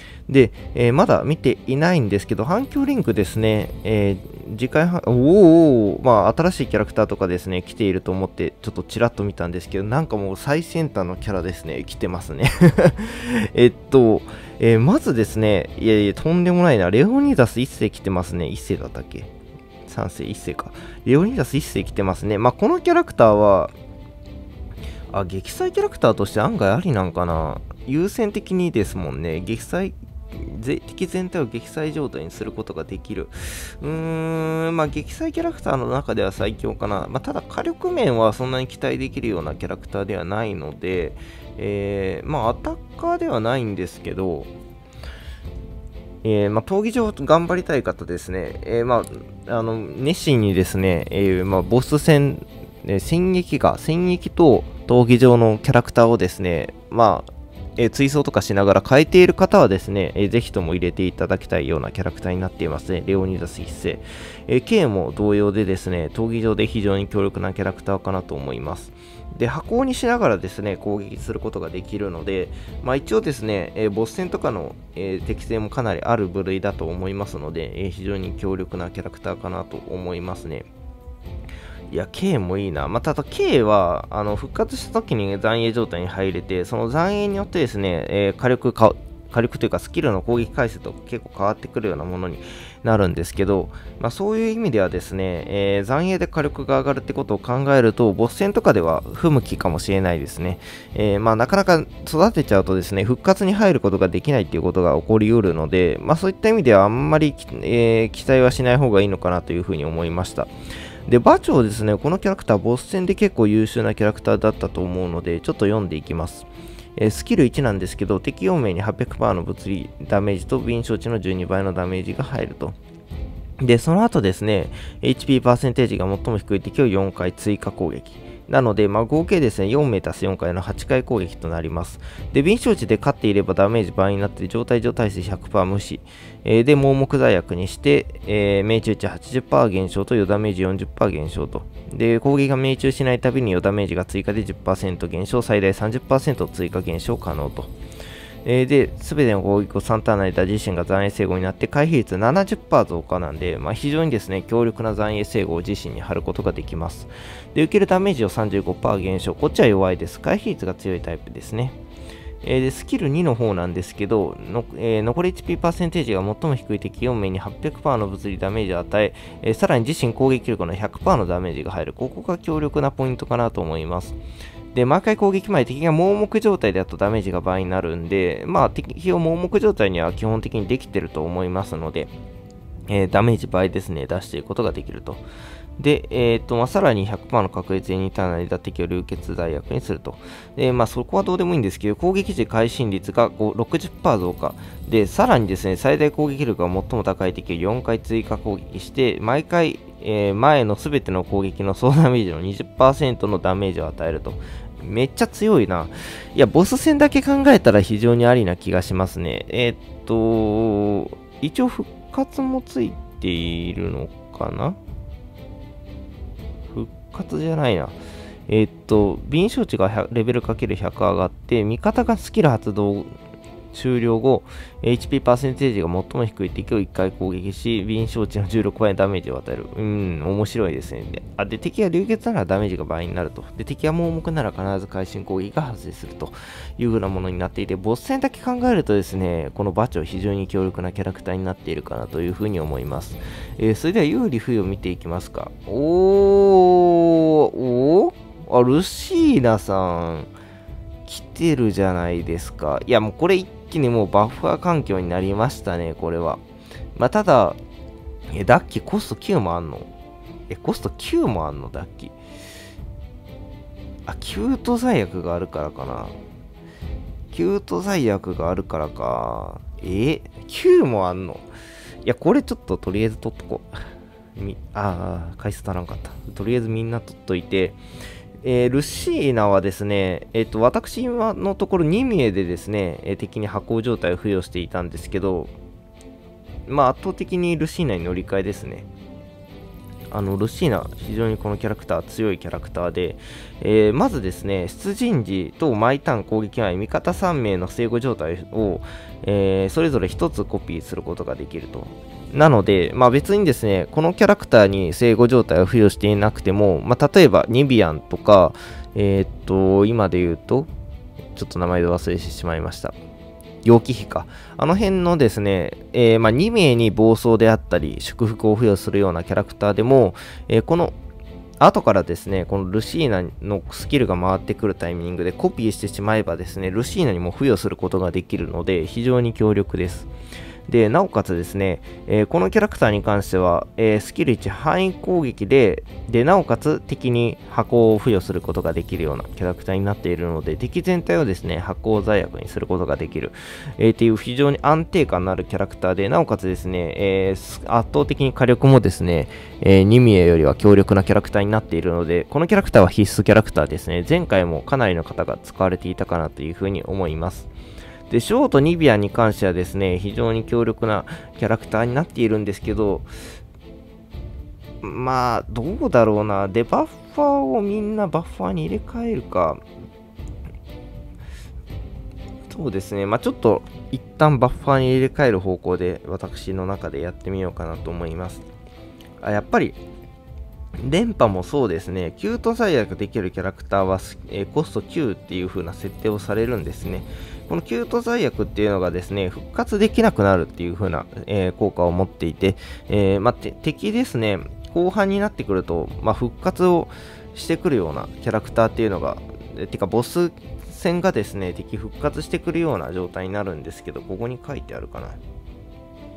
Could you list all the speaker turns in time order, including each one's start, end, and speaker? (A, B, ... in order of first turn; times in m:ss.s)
0:00.3-0:19.3 A
0:19.8-0:23.7 A
0:25.1-0:44.5 A
0:46.2-1:20.7 A
1:21.9-1:50.5 A
1:51.1-2:02.8 A
2:03.6-2:27.7 A
2:28.4-2:41.8 A
2:42.4-2:54.2 A
2:54.7-3:02.1 A
3:02.9-3:05.2 A
3:05.8-3:34.8 A
3:36.7-3:38.0 A
3:38.5-3:43.1 A
3:43.7-4:10.3 A
4:11.0-4:16.4 A
4:17.0-4:17.6 A
4:18.3-4:19.9 A
4:20.5-4:22.1 A
4:24.1-4:26.2 A
4:27.3-4:31.5 A
4:32.0-4:33.8 A
4:34.4-4:37.8 A
4:38.4-4:45.5 A
4:46.7-4:48.9 A
4:50.1-5:10.7 A
5:11.3-5:12.9 A
5:13.6-5:20.9 A
5:21.6-5:30.1 A
5:30.7-5:57.5 A
5:58.1-6:03.1 A
6:04.8-6:09.6 A
6:12.5-6:18.4 A
6:19.2-6:19.8 A
6:20.8-6:45.2 A